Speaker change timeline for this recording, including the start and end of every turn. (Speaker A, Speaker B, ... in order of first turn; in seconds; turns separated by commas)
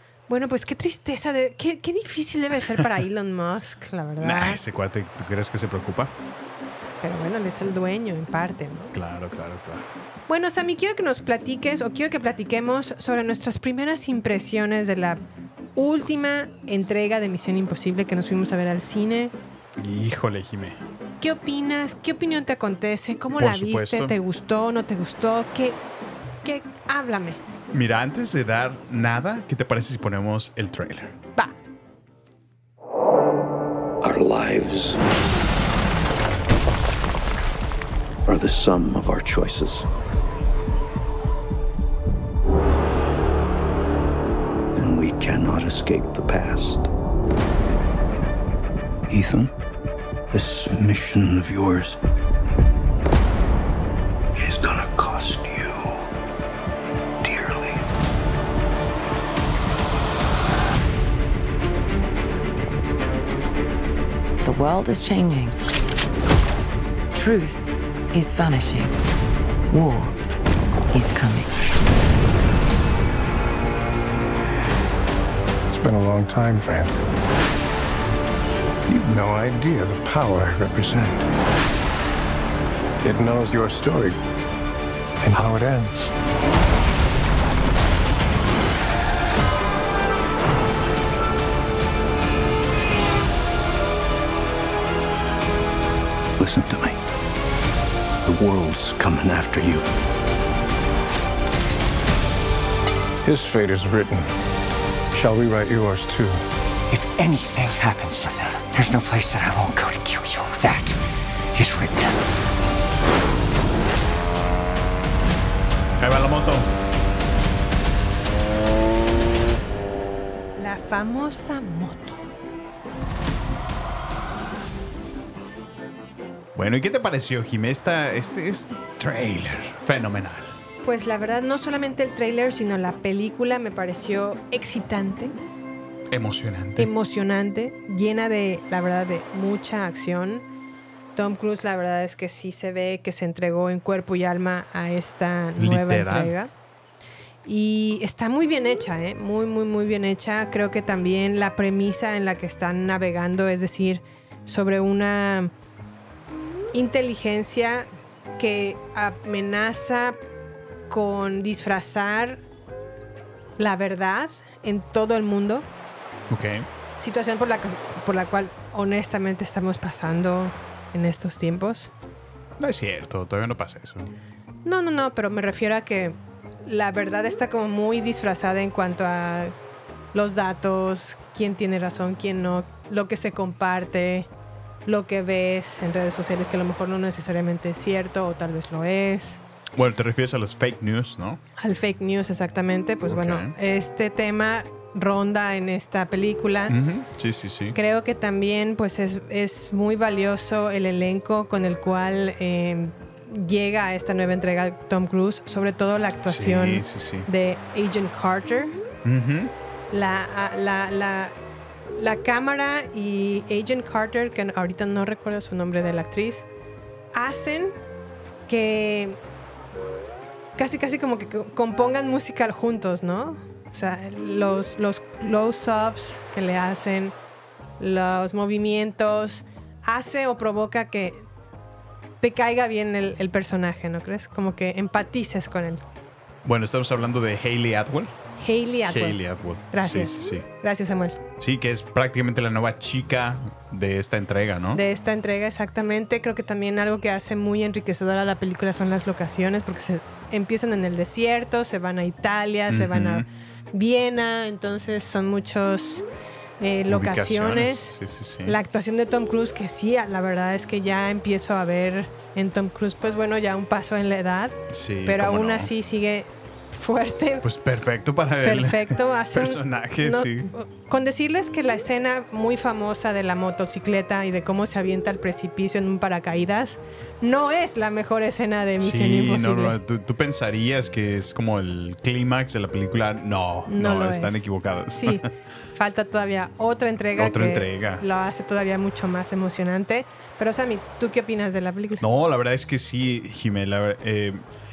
Speaker A: 0.3-4.6, Speaker B: 4.2-6.1, Speaker A: 7.0-8.9, Speaker B: 8.9-9.9, Speaker A: 10.3-15.2, Speaker A: 15.8-19.3, Speaker B: 19.8-20.8, Speaker A: 21.2-25.8, Speaker B: 23.4-24.2, Speaker A: 26.4-27.4, Speaker B: 27.7-31.2, Speaker C: 34.0-35.0, Speaker C: 38.2-39.9, Speaker C: 44.8-46.9, Speaker C: 49.1-49.5, Speaker C: 50.3-52.0, Speaker C: 54.4-56.0, Speaker C: 57.2-57.8, Speaker D: 64.4-65.6, Speaker D: 67.1-69.0, Speaker D: 69.7-70.2, Speaker D: 70.9-71.5, Speaker E: 75.7-77.0, Speaker E: 78.9-81.3, Speaker E: 83.0-84.2, Speaker E: 85.2-86.2, Speaker C: 96.4-97.0, Speaker C: 98.2-99.8, Speaker E: 103.2-104.3, Speaker E: 105.1-106.5, Speaker F: 106.9-111.0, Speaker F: 111.5-112.2, Speaker B: 116.0-116.7, Speaker A: 120.6-122.2, Speaker B: 126.5-130.6, Speaker A: 130.8-135.3, Speaker B: 136.1-136.9, Speaker A: 136.8-140.4, Speaker A: 141.2-146.5, Speaker B: 145.6-146.3, Speaker A: 147.5-155.5, Speaker A: 156.7-160.2, Speaker A: 160.9-162.4, Speaker A: 163.6-165.7, Speaker B: 166.3-166.7, Speaker A: 167.0-171.9, Speaker B: 172.6-174.1, Speaker A: 174.7-179.5, Speaker A: 180.1-184.3, Speaker A: 184.9-189.4, Speaker B: 189.8-191.4, Speaker A: 191.6-196.8, Speaker B: 193.1-193.6, Speaker B: 196.7-197.8, Speaker A: 197.7-208.8, Speaker B: 206.3-207.3, Speaker B: 209.0-209.5, Speaker A: 209.9-211.3, Speaker A: 212.0-216.4, Speaker A: 217.1-217.8, Speaker A: 218.5-219.2, Speaker A: 220.6-227.1, Speaker A: 227.8-231.3, Speaker A: 232.2-235.8, Speaker B: 236.4-238.1, Speaker A: 238.4-239.2, Speaker B: 238.8-240.5, Speaker A: 239.7-241.2, Speaker B: 241.4-244.8, Speaker A: 244.7-256.1, Speaker B: 252.7-253.3, Speaker A: 256.6-267.4, Speaker B: 256.9-258.6, Speaker B: 264.7-265.7, Speaker B: 267.4-270.5, Speaker A: 268.4-279.8, Speaker B: 278.8-285.3, Speaker A: 283.7-285.2, Speaker A: 285.8-292.0, Speaker B: 287.2-288.0, Speaker B: 292.0-294.4